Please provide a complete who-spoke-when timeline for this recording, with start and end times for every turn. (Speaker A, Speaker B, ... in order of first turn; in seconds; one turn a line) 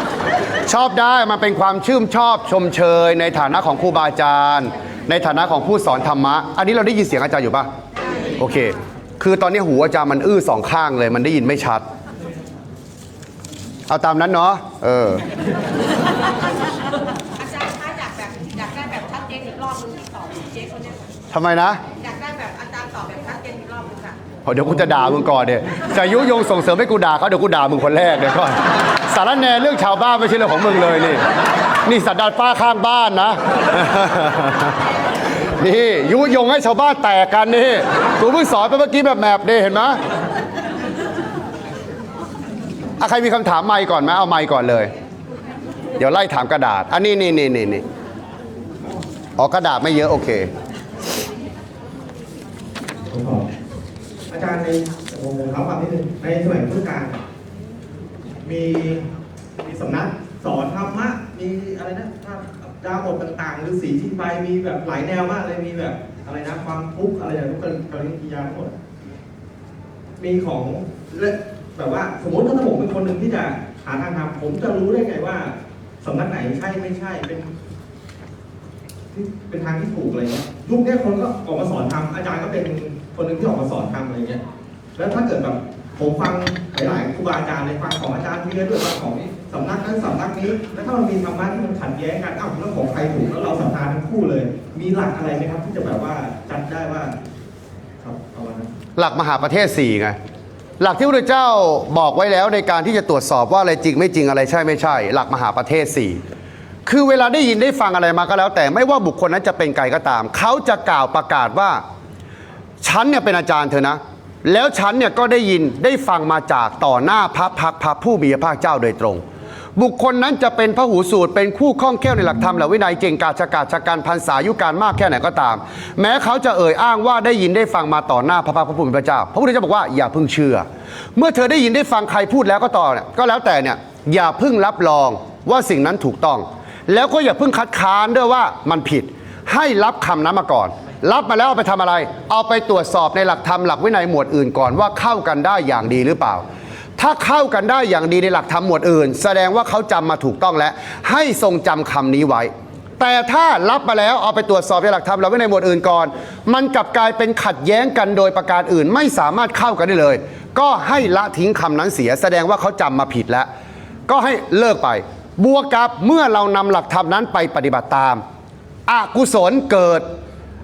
Speaker A: 0.7-7.7
Speaker A: 8.4-11.8
Speaker A: 13.9-15.2
Speaker B: 18.0-20.2
Speaker A: 21.3-21.8
Speaker B: 22.1-24.1
Speaker A: 24.4-31.2
Speaker A: 31.8-34.9
Speaker A: 35.4-40.0
Speaker A: 43.0-44.9
Speaker A: 46.0-47.8
Speaker A: 49.4-50.5
Speaker C: 53.1-53.4
Speaker C: 54.3-57.2
Speaker C: 58.4-59.0
Speaker C: 59.6-68.7
Speaker C: 70.2-77.5
Speaker C: 79.1-84.4
Speaker C: 85.0-97.1
Speaker C: 98.0-98.7
Speaker A: 99.0-100.2
Speaker A: 100.8-106.2
Speaker A: 106.8-111.8
Speaker A: 112.8-119.2
Speaker A: 119.8-130.6
Speaker A: 131.2-146.4
Speaker A: 147.0-163.5
Speaker A: 164.1-168.2
Speaker A: 168.9-170.0